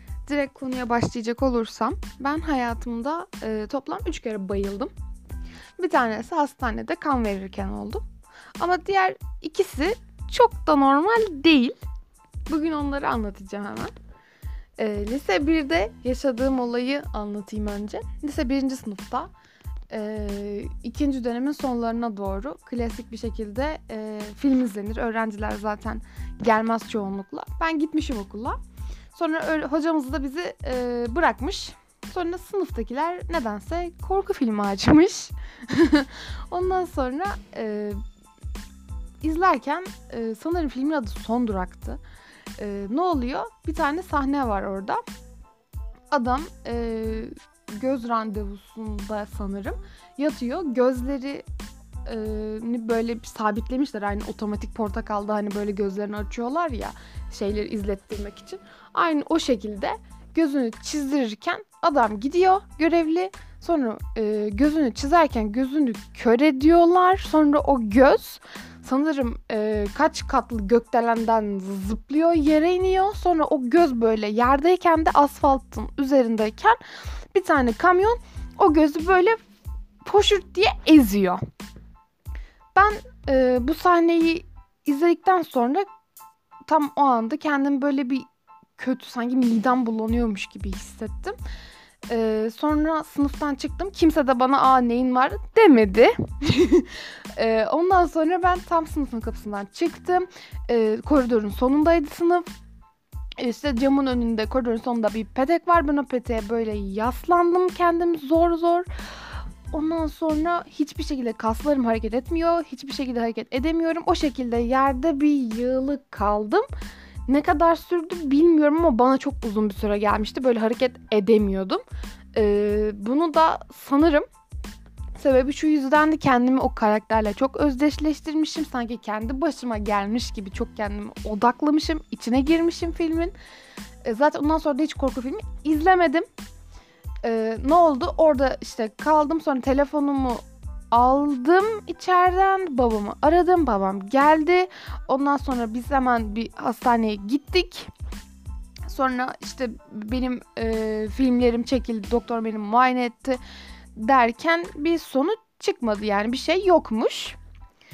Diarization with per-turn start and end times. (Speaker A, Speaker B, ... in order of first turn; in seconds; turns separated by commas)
Speaker A: 0.2-4.9, Speaker A: 5.8-8.0, Speaker A: 8.6-11.8, Speaker A: 12.5-13.9, Speaker A: 14.8-19.3, Speaker A: 19.9-28.6, Speaker A: 29.1-38.0, Speaker A: 39.2-42.0, Speaker A: 42.6-45.0, Speaker A: 46.1-51.4, Speaker A: 52.0-76.8, Speaker A: 77.3-79.4, Speaker A: 80.0-81.4, Speaker A: 82.7-85.8, Speaker A: 86.7-91.3, Speaker A: 92.1-102.5, Speaker A: 103.4-108.9, Speaker A: 109.7-116.6, Speaker A: 117.3-121.8, Speaker A: 122.3-124.2, Speaker A: 125.2-133.3, Speaker A: 134.0-136.2, Speaker A: 137.2-147.9, Speaker A: 148.9-153.4, Speaker A: 153.9-157.4